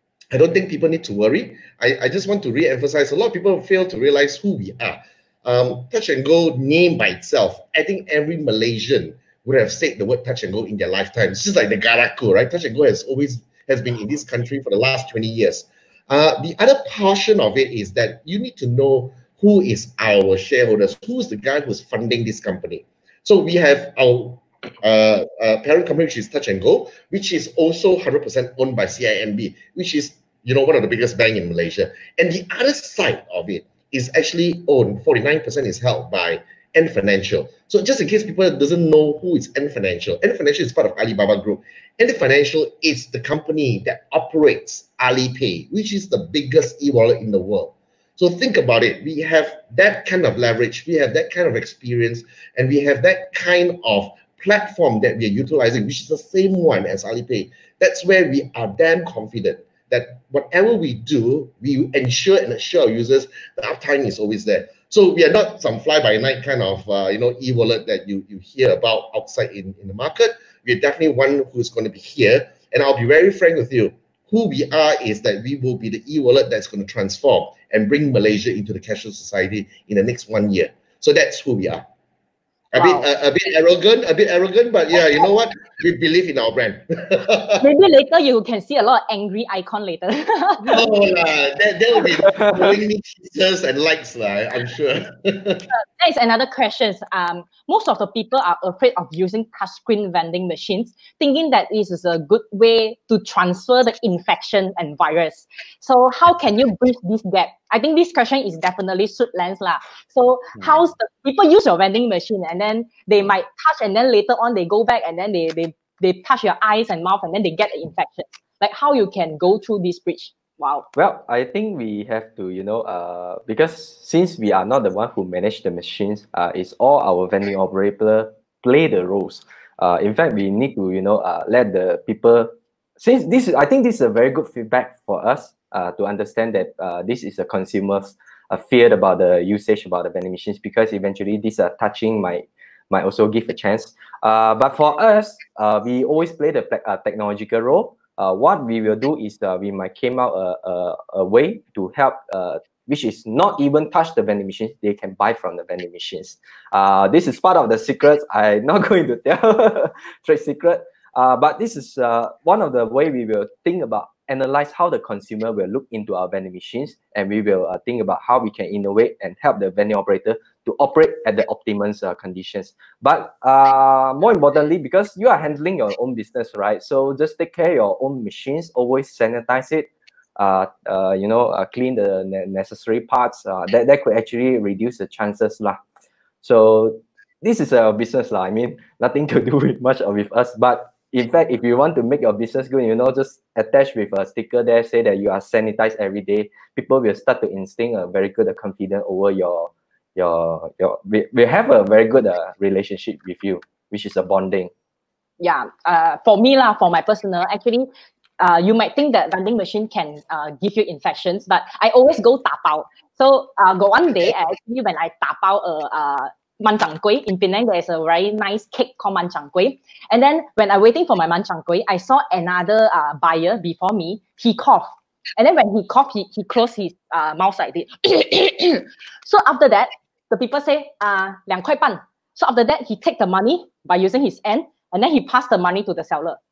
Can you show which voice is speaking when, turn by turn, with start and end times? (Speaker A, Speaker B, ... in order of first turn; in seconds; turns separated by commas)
Speaker A: 0.3-81.8, Speaker B: 82.7-83.1, Speaker A: 82.7-87.6, Speaker B: 87.6-90.8, Speaker A: 90.6-95.6, Speaker C: 92.3-92.6, Speaker B: 95.7-120.8, Speaker C: 121.0-185.8, Speaker C: 186.4-204.7, Speaker B: 205.4-207.8, Speaker B: 208.4-236.4